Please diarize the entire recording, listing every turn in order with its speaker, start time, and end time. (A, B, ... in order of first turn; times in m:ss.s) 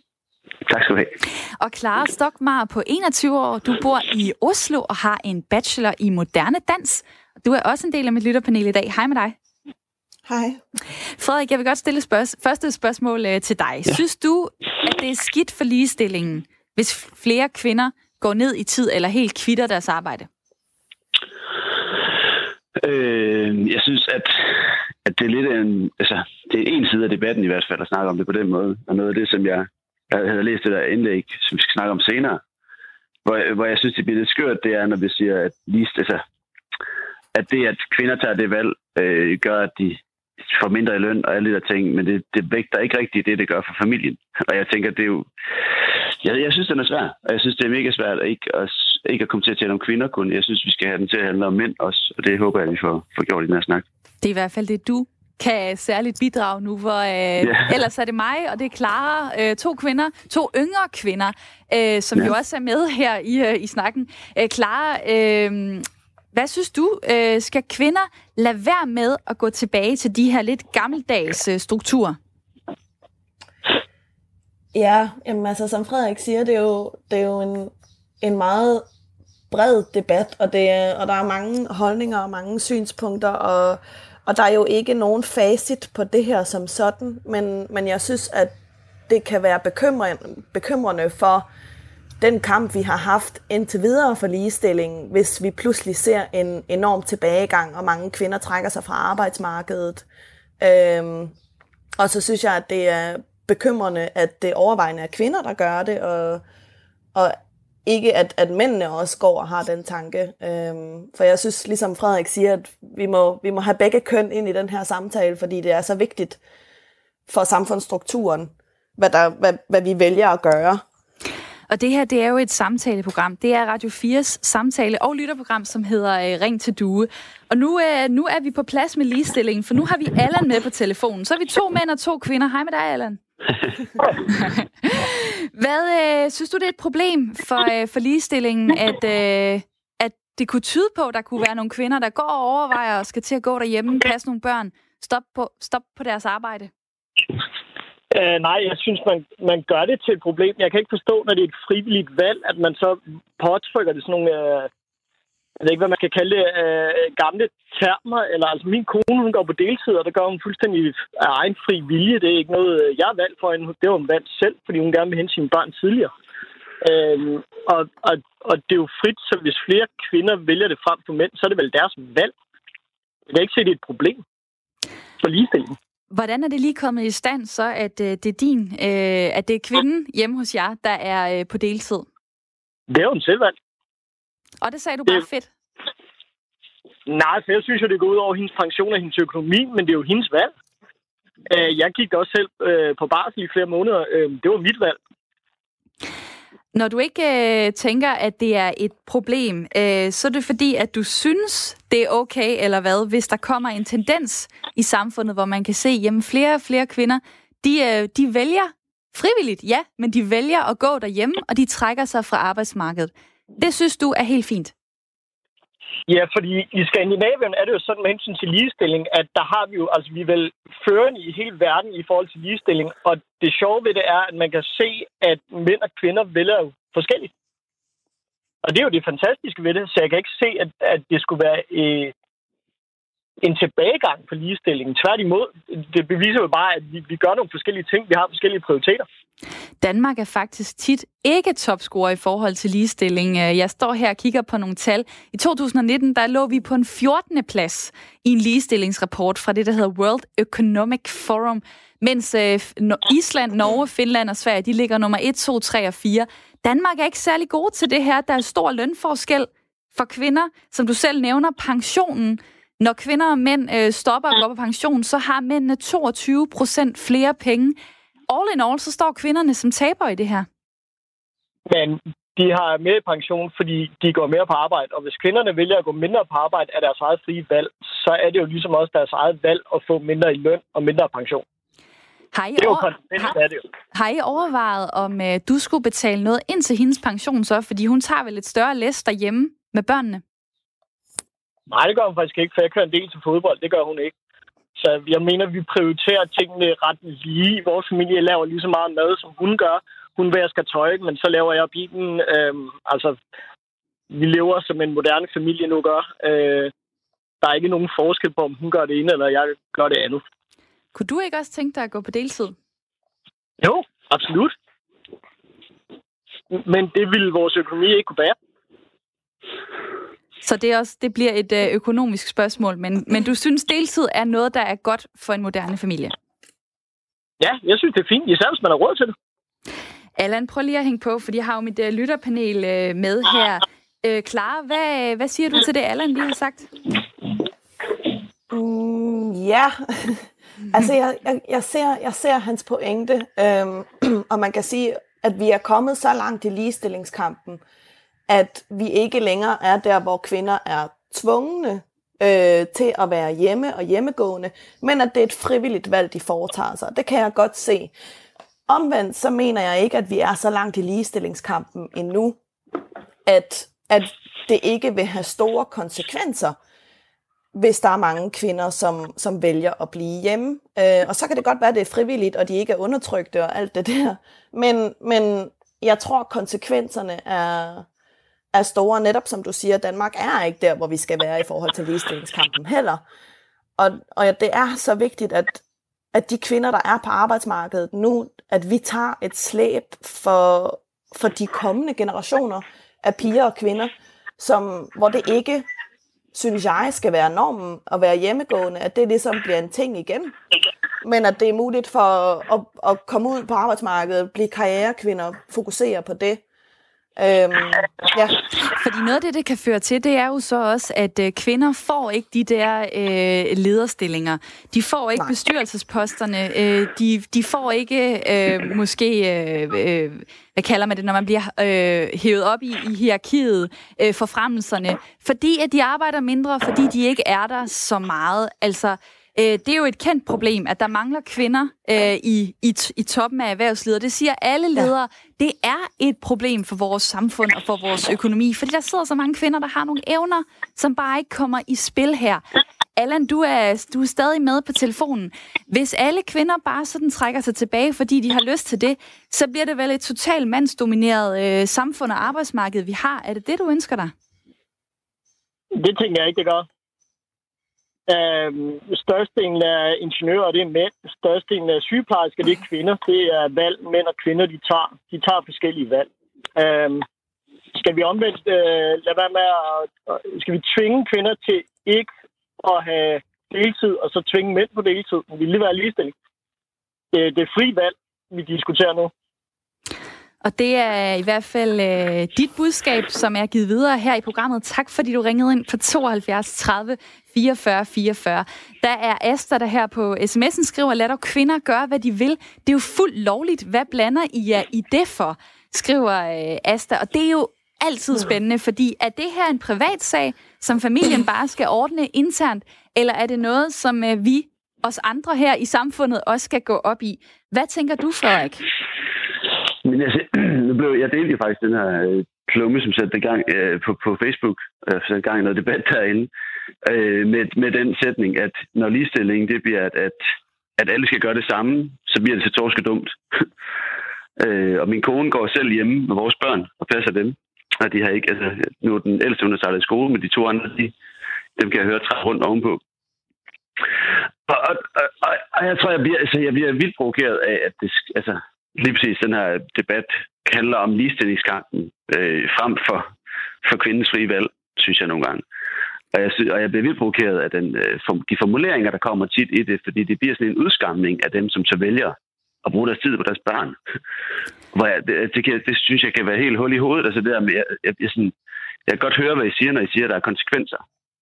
0:00.6-0:01.1 A
0:01.6-0:09.4 B
0:10.3-0:10.6 C
0:11.2-0:20.3 B
0:22.8-0:32.4 A
0:33.2-0:36.2 A
0:37.3-0:45.3 A
0:46.2-0:53.8 A
0:54.2-1:12.2 B
0:57.4-0:57.7 A
1:14.7-1:18.8 C
1:19.5-1:28.5 C
1:29.1-1:31.5 C
1:32.2-1:40.0 C
1:40.6-1:41.3 C
1:42.0-1:46.4 C
1:47.1-1:56.4 C
1:57.3-2:00.8 C
2:01.7-2:13.2 B
2:14.3-2:26.7 B
2:28.1-2:34.7 D
2:35.6-2:46.1 D
2:46.8-2:52.3 D
2:53.3-2:54.2 D
2:55.2-2:55.7 D
2:56.1-3:02.1 B
3:02.9-3:03.5 D
3:04.6-3:05.5 B
3:07.1-3:10.5 D
3:11.5-3:15.0 D
3:16.7-3:34.7 B
3:36.1-3:47.3 D
3:48.6-3:52.1 D
3:53.4-3:59.0 D
3:59.8-4:27.8 B
4:28.3-4:30.5 B
4:31.7-4:41.4 D
4:42.3-4:42.9 B
4:42.6-4:43.6 D
4:43.9-4:50.2 B
4:51.7-4:54.1 D
4:54.8-5:03.2 D
5:04.1-5:06.7 D
5:07.4-5:10.2 D
5:10.9-5:12.5 B
5:13.6-5:14.5 D
5:16.5-5:18.3 D
5:20.4-5:26.1 B
5:27.4-5:29.1 D
5:30.2-5:36.7 B
5:38.5-5:47.6 C
5:48.3-5:57.9 C
5:58.7-6:02.4 C
6:03.2-6:06.6 C
6:07.5-6:17.8 C
6:18.5-6:23.0 C
6:23.8-6:35.6 C
6:36.3-6:40.3 C
6:41.0-6:46.4 C
6:47.2-6:48.4 C
6:48.6-7:22.4 B
7:23.0-7:34.1 B
7:35.7-7:36.6 D
7:38.1-7:47.0 D
7:47.7-7:56.1 D
7:57.1-7:59.1 D
8:00.4-8:28.6 B
8:29.8-8:36.3 A
8:36.8-8:40.2 A
8:40.8-8:43.4 A
8:44.4-8:50.9 A
8:51.6-8:52.8 A
8:54.5-9:03.1 A
9:03.6-9:05.4 A
9:06.1-9:13.8 A
9:14.7-9:18.3 A
9:18.9-9:20.8 A